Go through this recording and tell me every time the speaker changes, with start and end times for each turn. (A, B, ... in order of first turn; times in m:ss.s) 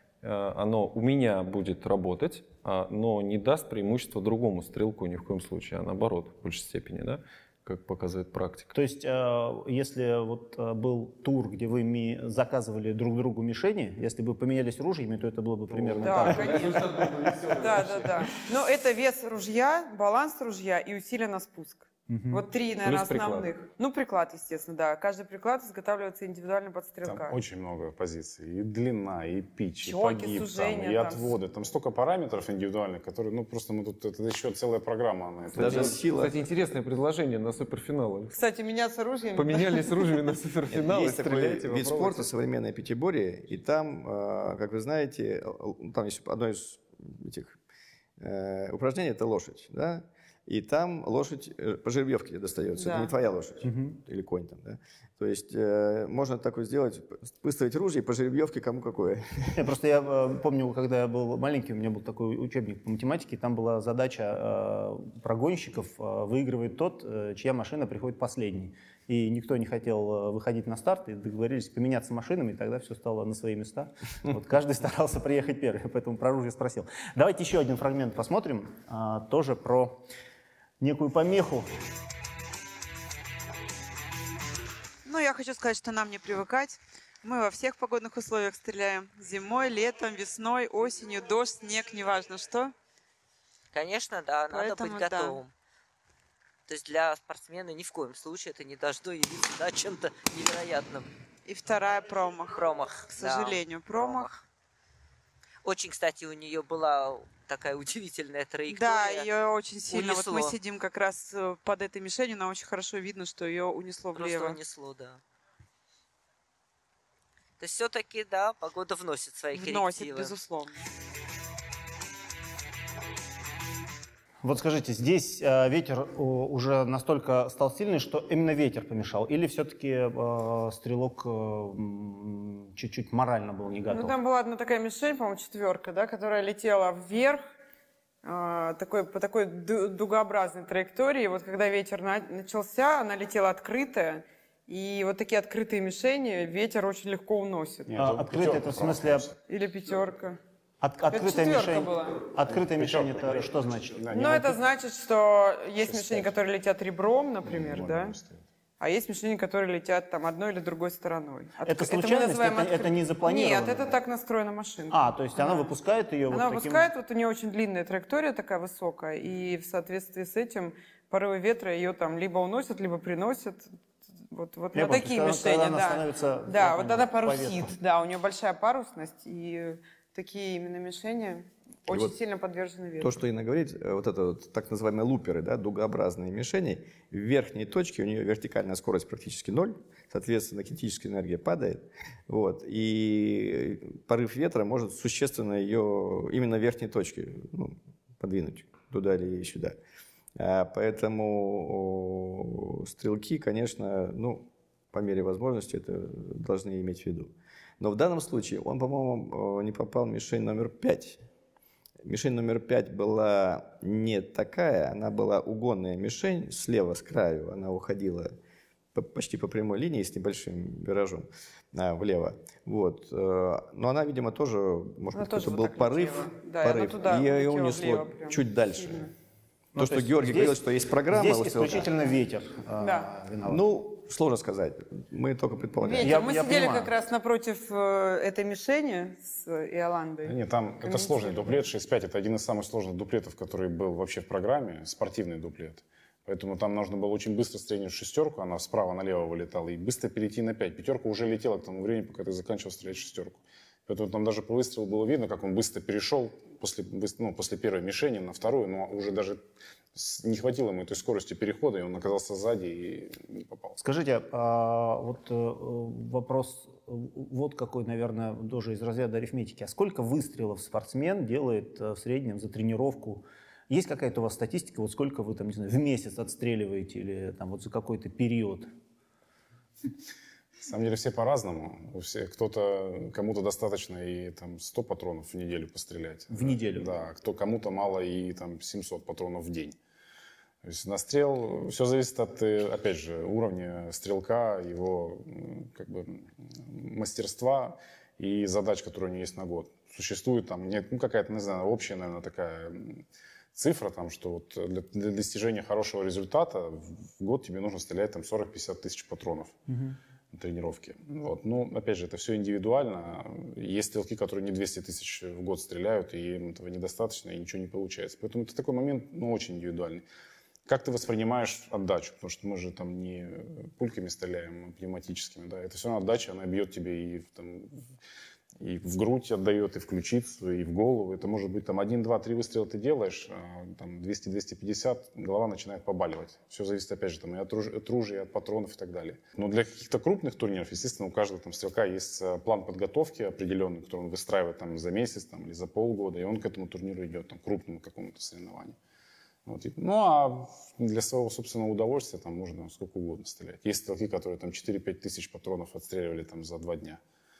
0:00.2-0:08.7 A
0:08.7-0:17.5 B
0:15.7-0:18.1 A
0:16.0-0:27.4 C
0:22.1-0:22.4 B
0:22.8-0:23.5 A
0:27.0-0:36.0 D
0:29.8-0:31.4 C
0:35.5-0:38.4 A
0:35.5-0:36.4 E
0:38.3-0:40.3 C
0:39.3-0:42.3 A
0:40.7-0:47.6 E
0:48.2-0:59.6 E
0:52.8-0:53.1 C
0:53.6-0:54.0 B
0:59.5-1:20.0 B
1:20.8-1:21.7 B
1:25.0-1:32.7 F
1:33.7-1:35.5 G
1:34.5-1:35.4 F
1:36.7-1:41.1 G
1:41.4-1:44.3 F
1:42.5-1:44.4 G
1:45.6-1:49.3 G
1:48.7-1:54.6 F
1:49.9-1:50.6 G
1:54.1-1:55.2 G
1:57.6-2:00.4 G
1:59.5-2:00.8 F
2:04.4-2:14.2 B
2:13.9-2:17.4 C
2:18.2-2:27.9 C
2:27.9-2:29.4 D
2:28.0-2:29.3 B
2:29.5-2:30.4 C
2:30.8-2:34.6 B
2:31.1-2:32.2 C
2:32.5-2:34.5 D
2:34.1-2:38.2 C
2:35.8-2:36.3 D
2:37.4-2:38.4 D
2:38.8-2:45.7 C
2:41.6-2:43.9 B
2:44.9-2:46.9 B
2:46.3-2:53.7 C
2:54.3-3:03.2 C
2:54.7-2:57.8 B
3:01.9-3:02.1 E
3:03.0-3:19.8 E
3:20.4-3:31.2 E
3:32.0-3:38.3 E
3:38.9-3:49.1 E
3:45.1-3:49.1 C
3:49.7-3:53.6 B
3:49.8-3:51.9 E
3:52.8-3:53.1 C
3:53.4-3:56.2 E
3:55.8-4:01.6 C
3:56.0-3:56.9 B
4:00.2-4:19.4 D
4:19.9-4:23.8 D
4:23.8-4:38.7 B
4:40.6-4:49.8 D
4:46.3-4:46.9 B
4:50.6-5:03.0 D
5:03.5-5:09.6 D
5:09.7-5:10.0 B
5:10.3-5:20.0 D
5:20.7-5:27.8 D
5:28.6-5:48.8 D
5:49.4-5:57.0 D